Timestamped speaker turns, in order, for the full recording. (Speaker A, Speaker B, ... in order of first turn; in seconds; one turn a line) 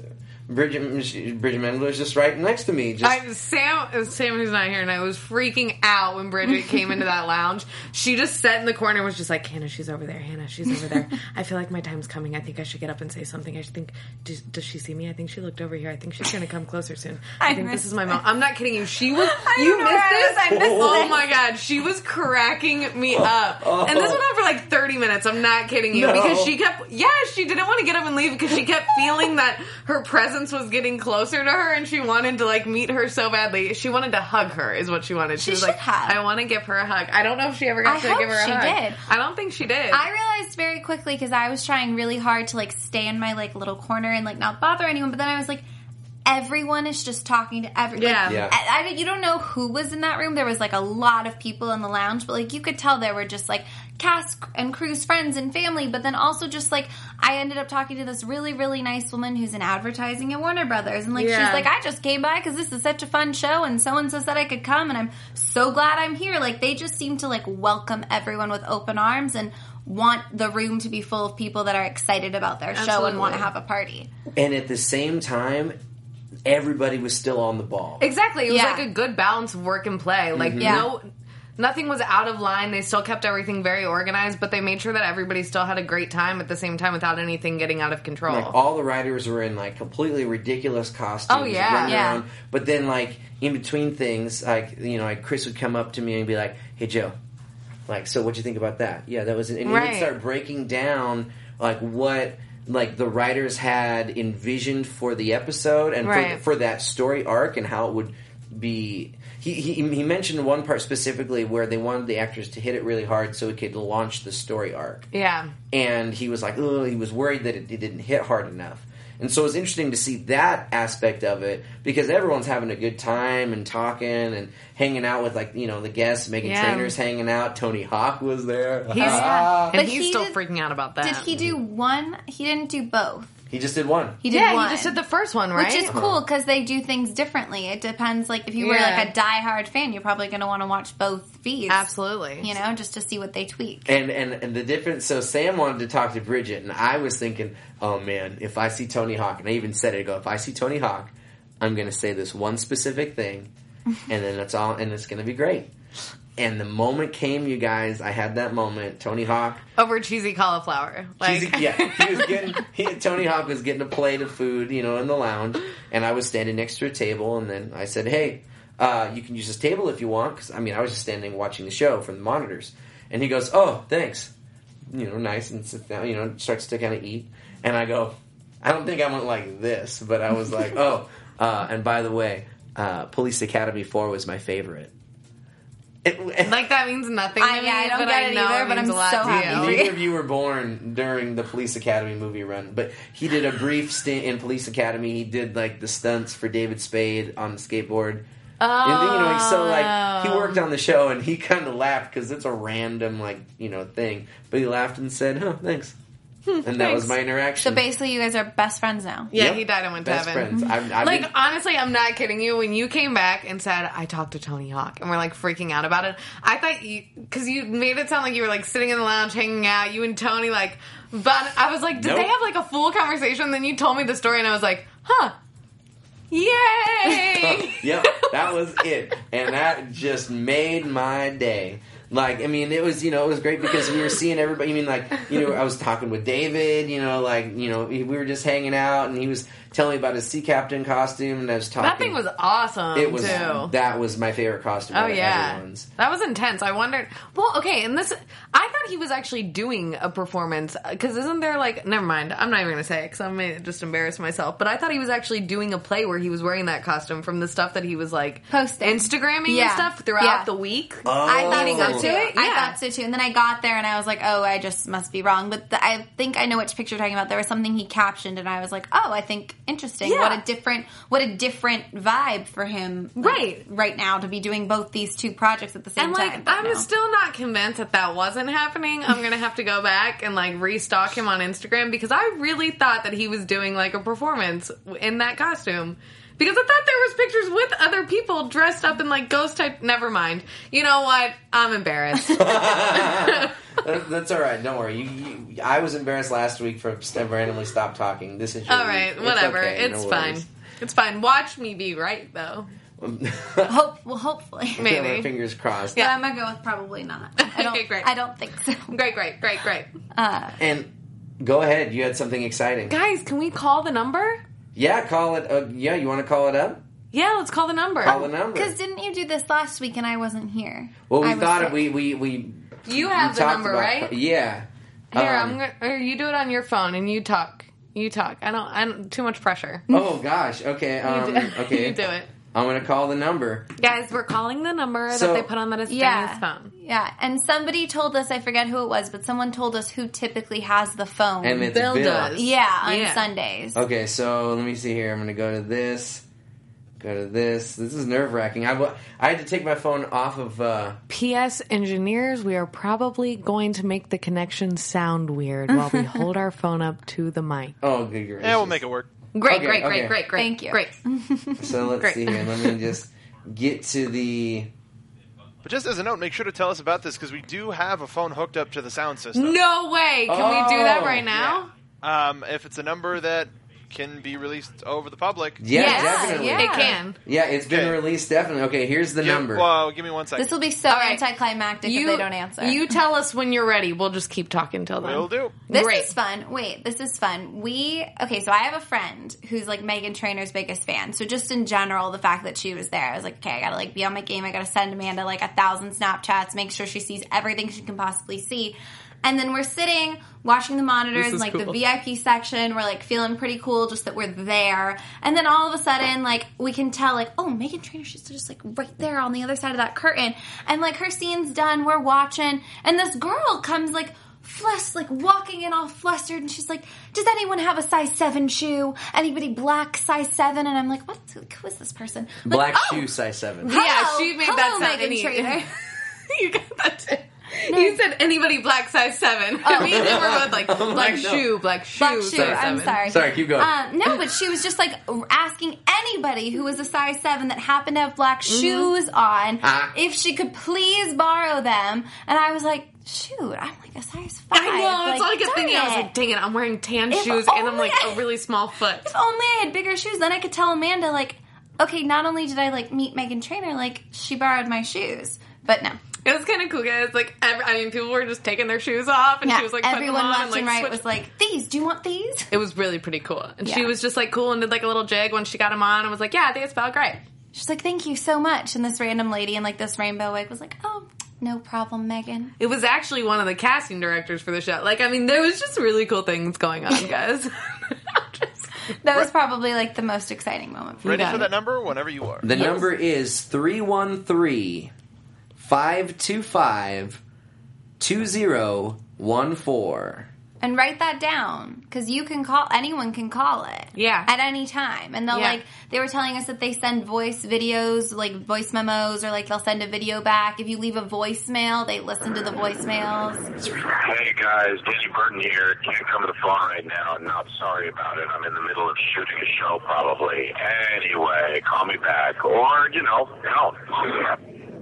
Speaker A: 0.5-3.2
Speaker B: 3.0-40.0
Speaker C: 17.4-18.2
Speaker C: 19.2-21.2
Speaker A: 20.5-21.1
Speaker A: 23.1-24.2
Speaker A: 25.9-26.5
Speaker C: 35.4-36.2
Speaker C: 37.8-39.0
Speaker C: 39.9-45.6
Speaker C: 46.2-74.1
Speaker B: 48.0-48.4
Speaker A: 48.2-48.5
Speaker B: 61.1-61.7
Speaker B: 72.7-73.5
Speaker A: 74.3-75.8
Speaker A: 76.4-78.1
Speaker B: 78.0-81.0
Speaker C: 78.5-78.8
Speaker A: 80.3-80.9
Speaker C: 80.6-80.9
Speaker B: 81.6-88.5
Speaker A: 88.3-97.2
Speaker B: 91.3-92.0
Speaker C: 91.8-92.2
Speaker A: 97.9-115.1
Speaker B: 99.6-100.1
Speaker B: 106.0-106.4
Speaker B: 115.1-115.5
Speaker A: 115.7-129.8
Speaker B: 126.4-126.9
Speaker B: 128.9-131.2
Speaker C: 129.0-130.3
Speaker C: 131.0-133.3
Speaker A: 131.3-131.6
Speaker A: 133.5-134.2
Speaker C: 134.2-135.0
Speaker B: 134.3-135.9
Speaker C: 135.5-141.9
Speaker A: 135.9-136.2
Speaker B: 138.6-139.1
Speaker B: 141.7-142.5
Speaker C: 142.4-143.9
Speaker A: 143.8-153.5
Speaker A: 154.1-155.7
Speaker A: 156.4-159.6
Speaker B: 159.8-162.6
Speaker A: 161.2-174.3
Speaker A: 174.9-184.9
Speaker A: 186.0-186.6
Speaker B: 186.4-189.8
Speaker C: 187.4-190.0
Speaker A: 189.2-198.2
Speaker B: 198.6-200.6
Speaker A: 198.8-205.9
Speaker B: 206.5-207.1
Speaker A: 206.6-207.8
Speaker C: 207.6-209.3
Speaker B: 209.3-225.3
Speaker A: 209.3-211.3
Speaker A: 221.9-222.3
Speaker B: 226.3-228.4
Speaker A: 227.1-242.2
Speaker B: 241.8-243.7
Speaker A: 242.9-245.9
Speaker B: 244.9-262.8
Speaker C: 258.5-260.5
Speaker A: 261.0-262.1
Speaker C: 261.2-276.9
Speaker B: 270.0-270.4
Speaker B: 273.2-273.6
Speaker B: 276.0-293.5
Speaker A: 292.3-300.4
Speaker B: 298.7-302.7
Speaker A: 303.0-303.8
Speaker C: 303.6-304.9
Speaker A: 304.8-306.0
Speaker B: 304.8-305.3
Speaker C: 305.9-308.9
Speaker B: 307.4-308.1
Speaker B: 308.9-309.9
Speaker C: 310.1-310.6
Speaker A: 310.6-312.9
Speaker B: 312.9-314.4
Speaker A: 314.7-316.8
Speaker B: 317.1-318.3
Speaker A: 318.0-318.7
Speaker C: 318.5-321.8
Speaker A: 321.1-325.6
Speaker B: 322.9-324.1
Speaker B: 325.1-329.8
Speaker A: 329.9-333.7
Speaker B: 331.0-332.3
Speaker B: 333.8-336.7
Speaker A: 335.1-335.5
Speaker C: 335.9-341.7
Speaker A: 341.4-342.4
Speaker B: 341.7-343.3
Speaker C: 342.3-343.8
Speaker A: 343.7-346.2
Speaker A: 347.0-351.0
Speaker B: 351.1-357.8
Speaker A: 357.8-358.8
Speaker D: 358.4-359.2
Speaker B: 359.3-361.0
Speaker A: 359.4-360.2
Speaker C: 360.4-361.6
Speaker A: 361.6-364.7
Speaker B: 362.0-362.9
Speaker D: 365.6-369.6
Speaker B: 369.3-371.7
Speaker A: 370.3-371.3
Speaker D: 371.3-375.7
Speaker A: 375.6-379.7
Speaker B: 375.7-377.2
Speaker C: 375.7-377.0
Speaker D: 377.7-378.0
Speaker D: 379.2-380.6
Speaker C: 380.4-382.8
Speaker B: 380.9-381.2
Speaker B: 381.8-386.1
Speaker D: 385.0-385.6
Speaker C: 385.7-423.0
Speaker B: 401.1-401.8
Speaker A: 422.4-423.7
Speaker B: 423.6-433.0
Speaker C: 423.6-425.7
Speaker C: 427.7-428.0
Speaker C: 429.6-430.2
Speaker A: 429.7-431.5
Speaker C: 432.0-446.1
Speaker A: 432.3-433.7
Speaker B: 438.5-438.9
Speaker A: 439.6-439.9
Speaker B: 444.5-449.1
Speaker C: 447.1-448.2
Speaker C: 449.0-456.0
Speaker B: 456.2-461.0
Speaker C: 459.4-462.5
Speaker B: 462.5-467.2
Speaker C: 463.6-463.9
Speaker C: 467.5-472.5
Speaker B: 472.6-478.7
Speaker C: 479.0-481.4
Speaker B: 481.0-481.5
Speaker D: 481.0-482.5
Speaker A: 482.4-484.9
Speaker B: 482.6-482.8
Speaker A: 485.6-487.2
Speaker A: 488.0-490.3
Speaker C: 490.6-503.5
Speaker B: 493.9-494.3
Speaker B: 495.3-495.6
Speaker E: 503.6-514.4